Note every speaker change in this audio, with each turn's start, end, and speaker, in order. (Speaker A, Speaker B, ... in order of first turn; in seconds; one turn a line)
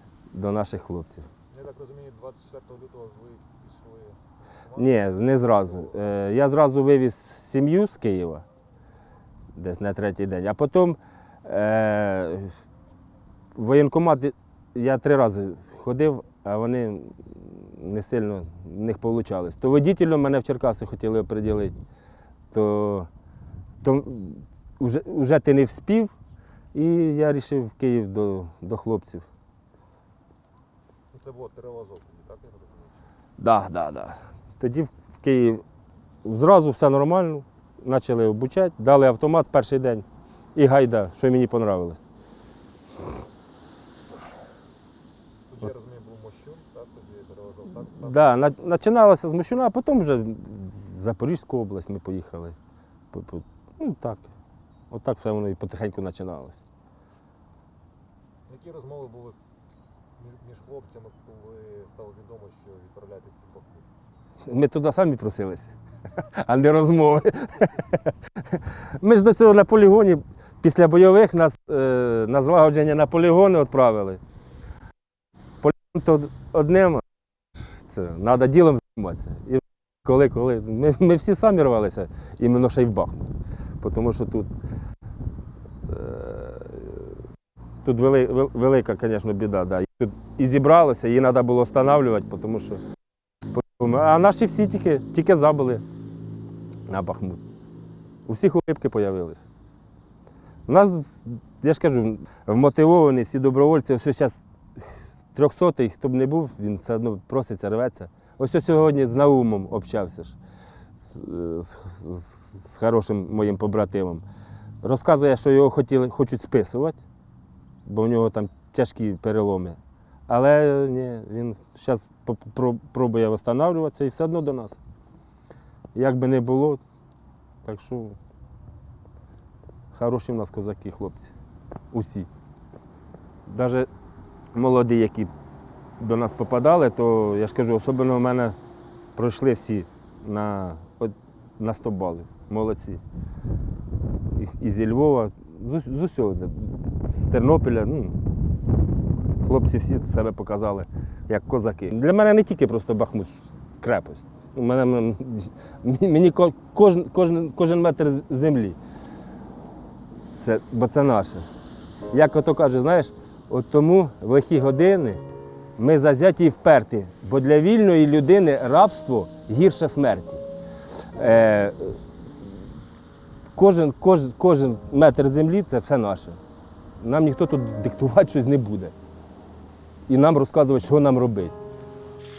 Speaker A: 0.3-1.3
Speaker B: 1.5-5.9
Speaker A: 4.8-8.4
Speaker A: 9.5-12.5
Speaker A: 13.5-21.8
Speaker A: 22.5-23.1
Speaker A: 23.8-26.1
Speaker A: 26.7-29.2
Speaker B: 31.1-33.1
Speaker A: 33.4-35.6
Speaker A: 36.2-42.0
Speaker B: 45.5-48.4
Speaker A: 47.9-52.5
Speaker A: 53.1-54.3
Speaker A: 54.9-56.6
Speaker B: 58.5-59.4
Speaker B: 60.2-63.9
Speaker A: 64.4-74.2
Speaker A: 75.6-84.5
Speaker A: 85.8-87.2
Speaker A: 87.8-92.8
Speaker A: 93.5-95.8
Speaker A: 96.9-97.4
Speaker A: 98.2-99.5
Speaker A: 100.7-110.4
Speaker A: 111.0-114.2
Speaker A: 114.8-117.0
Speaker A: 117.8-124.8
Speaker A: 125.9-126.8
Speaker A: 127.6-128.2
Speaker A: 129.9-131.3
Speaker A: 131.9-132.3
Speaker A: 133.4-133.9
Speaker A: 134.5-135.3
Speaker A: 136.0-138.6
Speaker A: 139.1-143.0
Speaker A: 144.3-148.2
Speaker A: 149.4-158.8
Speaker A: 160.4-161.4
Speaker A: 162.1-165.2
Speaker A: 165.8-170.4
Speaker A: 171.1-172.6
Speaker A: 173.5-176.4
Speaker A: 177.0-178.9
Speaker A: 180.1-181.6